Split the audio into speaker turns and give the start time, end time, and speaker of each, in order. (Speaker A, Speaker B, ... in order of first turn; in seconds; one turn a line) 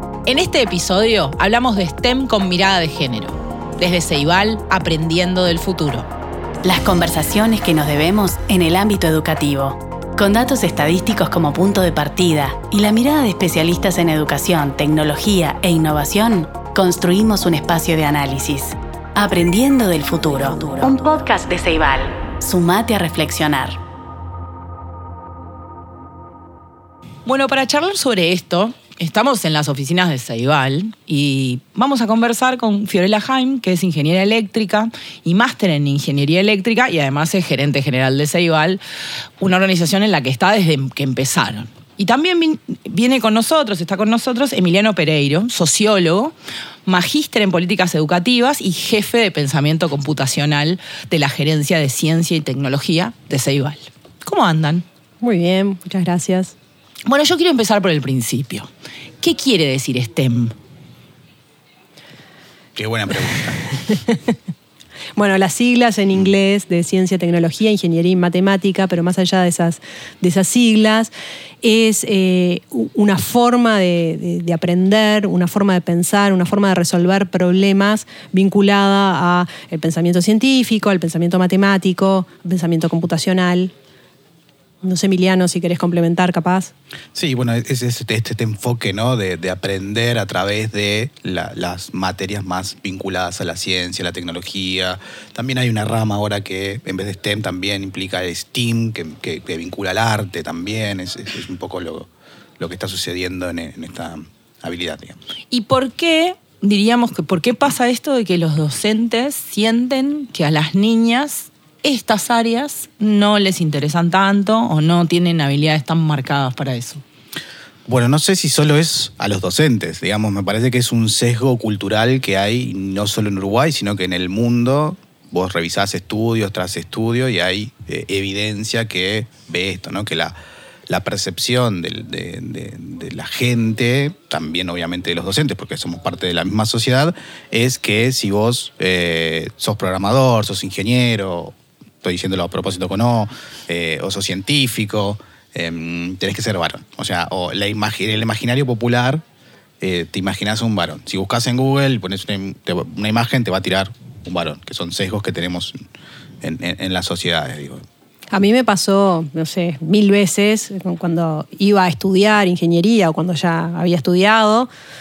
Speaker A: 0.3-6.1
Speaker B: 6.6-23.8
Speaker A: 27.2-38.8
Speaker A: 39.4-46.4
Speaker A: 46.9-54.9
Speaker C: 55.2-56.5
Speaker A: 57.1-58.7
Speaker A: 59.2-60.5
Speaker D: 62.8-63.7
Speaker C: 63.9-64.2
Speaker C: 65.2-71.1
Speaker C: 71.6-83.7
Speaker C: 84.8-86.7
Speaker D: 87.2-105.2
Speaker A: 105.5-117.0
Speaker D: 117.9-130.3
Speaker D: 130.9-149.2
Speaker D: 149.8-155.8
Speaker D: 156.4-157.8
Speaker C: 158.3-164.7